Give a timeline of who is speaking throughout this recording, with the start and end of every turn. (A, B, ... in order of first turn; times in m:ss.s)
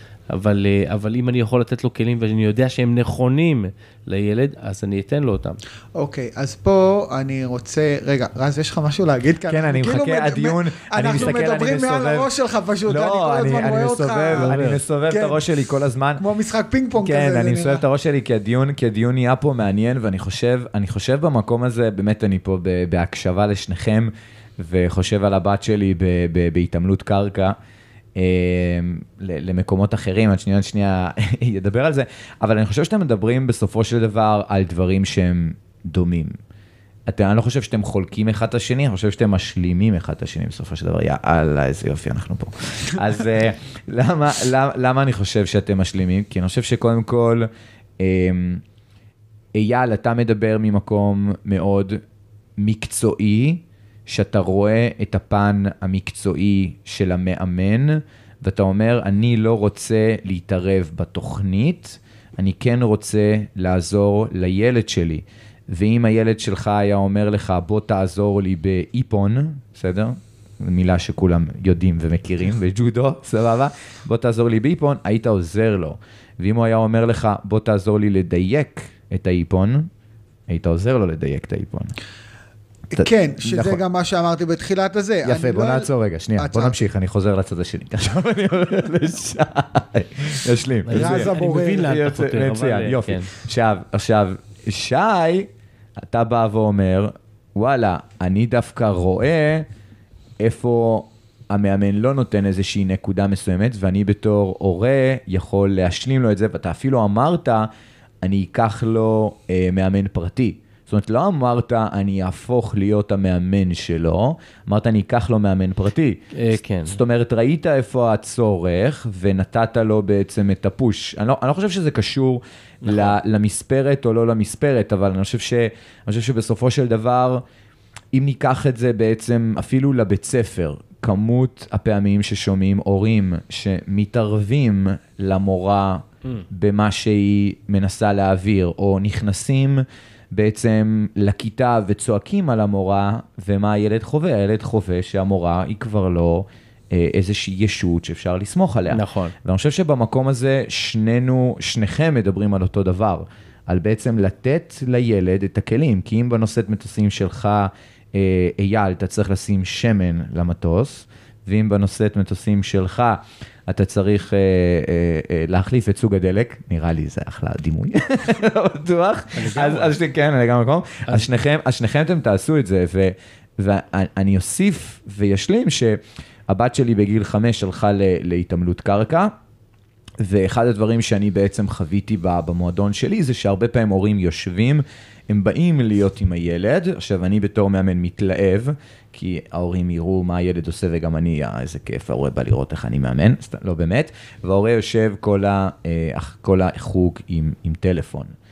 0:00.3-0:05.6 A
0:06.0-0:15.5 B
0:09.5-0:12.3 C
0:12.9-0:16.2 C
0:14.4-0:14.8 A
0:16.2-0:17.8 B
0:17.0-0:27.6 C
0:28.2-0:36.3 C
0:37.1-0:47.5 C
0:48.0-0:48.6 C
0:49.6-0:52.0 C
0:52.6-1:19.9 C
1:20.5-1:21.9 C
1:22.9-1:23.8 C
1:22.9-1:26.8 B
1:25.2-1:35.5 C
1:30.9-1:33.3 A
1:30.9-1:32.0 B
1:36.0-1:39.7 C
1:40.4-1:47.7 C
1:48.2-2:07.4 C
1:56.3-1:57.0 A
2:02.8-2:03.2 A
2:08.1-2:59.3 C
2:28.9-2:29.3 A
2:49.3-2:50.0 A
3:00.2-3:18.4 C